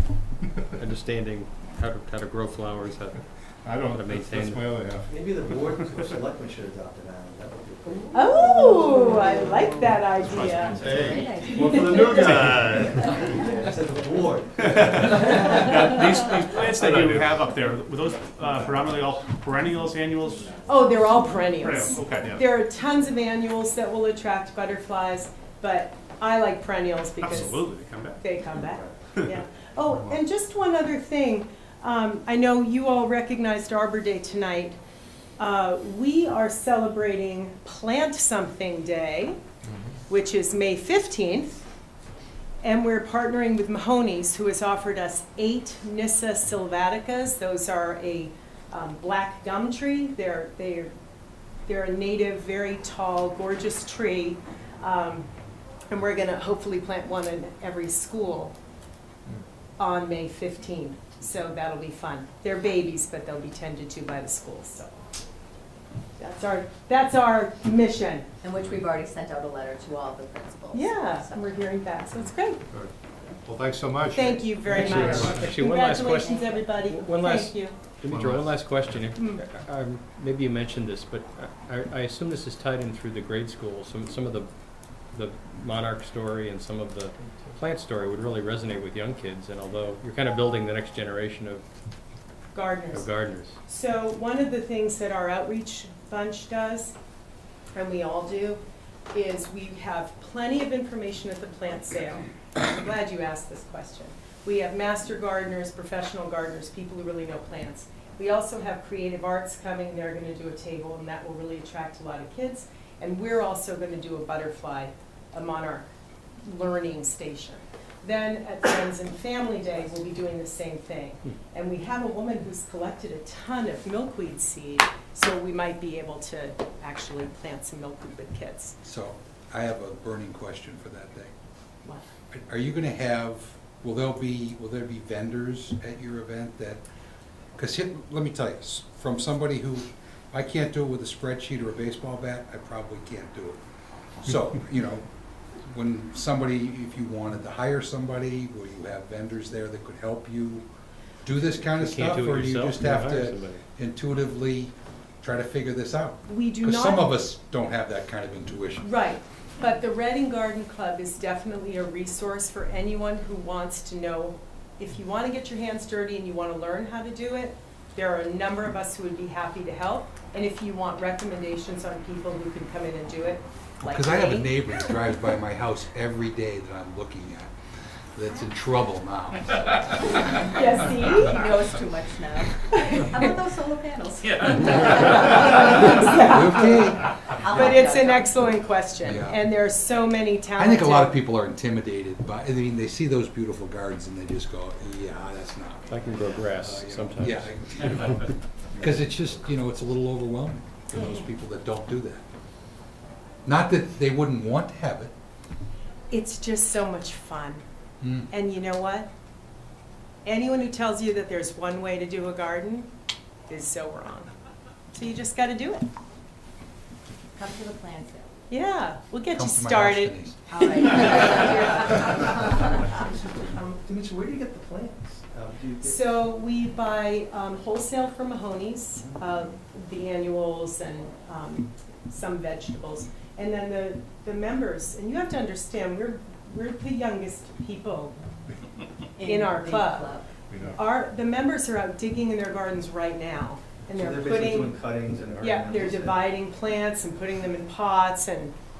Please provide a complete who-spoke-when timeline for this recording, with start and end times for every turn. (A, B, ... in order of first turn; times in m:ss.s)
0:00.7-0:03.2 A
0:03.6-0:05.2 B
0:03.9-0:04.7 A
0:05.1-0:09.6 C
0:08.1-0:12.4 D
0:09.9-0:11.0 E
0:10.5-0:12.1 F
0:10.5-0:15.9 C
0:10.8-0:11.4 B
0:12.1-0:13.2 E
0:14.6-0:20.7 E
0:16.6-0:17.4 B
0:20.6-0:27.7 D
0:21.6-0:22.4 E
0:27.2-0:28.2 E
0:28.2-0:34.8 D
0:35.4-0:39.4 D
0:40.1-0:41.6 D
0:42.6-0:50.9 D
0:51.6-0:55.3 D
0:55.9-0:58.5 D
0:59.8-1:04.9 D
1:06.2-1:08.3 D
1:08.4-1:11.5 F
1:10.7-1:12.6 D
1:13.4-1:15.5 B
1:14.1-1:17.8 D
1:14.9-1:24.5 A
1:16.2-1:16.6 F
1:18.1-1:18.5 B
1:19.1-1:19.4 D
1:25.1-1:31.6 A
1:32.5-1:33.1 D
1:32.9-1:33.5 A
1:33.6-1:36.9 D
1:37.7-1:38.6 D
1:39.1-1:55.9 D
1:56.4-2:08.8 D
2:08.8-2:11.3 G
2:12.3-2:16.8 G
2:17.6-2:23.6 G
2:24.2-2:25.1 G
2:25.6-2:30.6 G
2:31.2-2:38.9 G
2:31.7-2:33.6 A
2:36.2-2:37.1 D
2:38.8-2:54.8 D
2:53.8-2:57.5 G
2:58.1-3:01.1 G
3:00.5-3:01.4 D
3:01.2-3:06.3 F
3:02.7-3:03.2 D
3:05.3-3:11.1 D
3:05.3-3:07.8 G
3:07.3-3:08.2 F
3:09.0-3:09.4 G
3:10.6-3:22.2 G
3:15.9-3:18.1 A
3:23.4-3:25.1 G
3:26.1-3:27.6 D
3:28.0-3:28.3 G
3:28.3-3:29.1 D
3:30.2-3:32.9 D
3:33.5-3:34.3 D
3:34.9-3:35.8 D
3:37.3-3:38.3 F
3:38.5-3:42.2 D
3:39.3-3:40.4 G
3:40.5-3:42.7 F
3:43.0-3:46.2 C
3:45.8-3:58.2 D
3:59.2-4:00.3 F
3:59.2-4:00.2 D
4:00.5-4:00.8 B
4:00.7-4:04.8 D
4:03.9-4:06.3 C
4:05.4-4:08.5 D